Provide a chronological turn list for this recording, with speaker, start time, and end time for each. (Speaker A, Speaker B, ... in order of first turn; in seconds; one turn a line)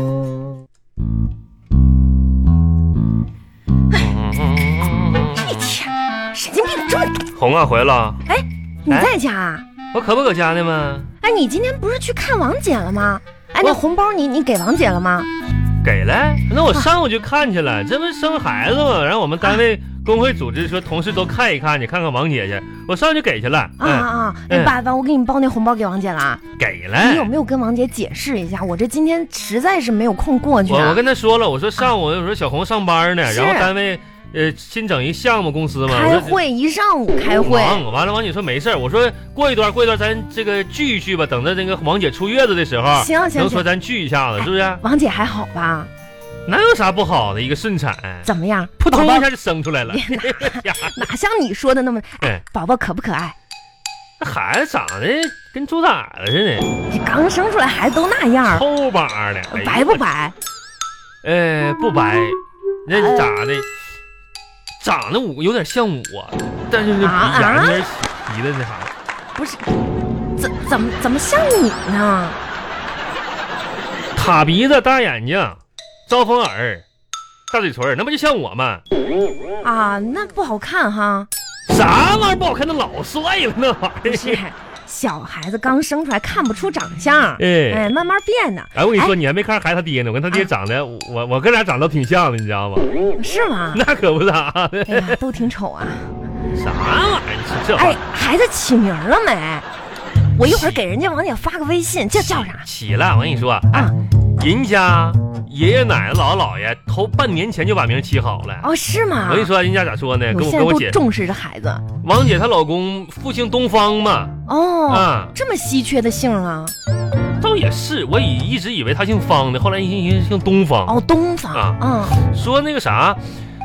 Speaker A: 3.9-5.4
Speaker B: 5.3-7.3
Speaker A: 7.3-8.2
Speaker B: 8.2-9.6
Speaker A: 9.9-11.1
Speaker B: 11.2-15.3
Speaker A: 15.8-24.8
Speaker B: 23.8-26.4
Speaker A: 26.6-27.3
Speaker B: 27.0-31.0
Speaker A: 30.7-36.4
Speaker B: 33.2-33.7
Speaker B: 35.9-37.8
Speaker A: 37.4-44.8
Speaker B: 42.9-43.6
Speaker B: 44.4-45.9
Speaker A: 46.5-51.0
Speaker B: 48.2-49.3
Speaker B: 49.9-53.3
Speaker A: 54.2-56.7
Speaker B: 56.9-58.6
Speaker A: 58.5-60.0
Speaker B: 59.5-60.3
Speaker A: 61.2-63.7
Speaker B: 62.9-63.3
Speaker A: 64.8-68.9
Speaker B: 67.0-67.8
Speaker B: 69.3-69.7
Speaker B: 70.4-72.4
Speaker A: 74.1-76.8
Speaker A: 77.5-78.8
Speaker B: 79.6-81.3
Speaker A: 81.7-84.4
Speaker B: 84.0-89.1
Speaker A: 87.4-87.9
Speaker A: 88.7-92.9
Speaker B: 93.2-93.8
Speaker A: 93.7-95.2
Speaker B: 94.9-96.1
Speaker A: 96.5-98.0
Speaker B: 97.7-99.6
Speaker B: 100.3-102.7
Speaker A: 100.4-100.8
Speaker A: 102.2-108.7
Speaker B: 108.6-109.5
Speaker A: 109.2-111.0
Speaker B: 110.3-111.8
Speaker A: 112.0-115.3
Speaker B: 114.5-116.7
Speaker A: 117.4-121.0
Speaker B: 120.9-122.2
Speaker A: 121.5-123.2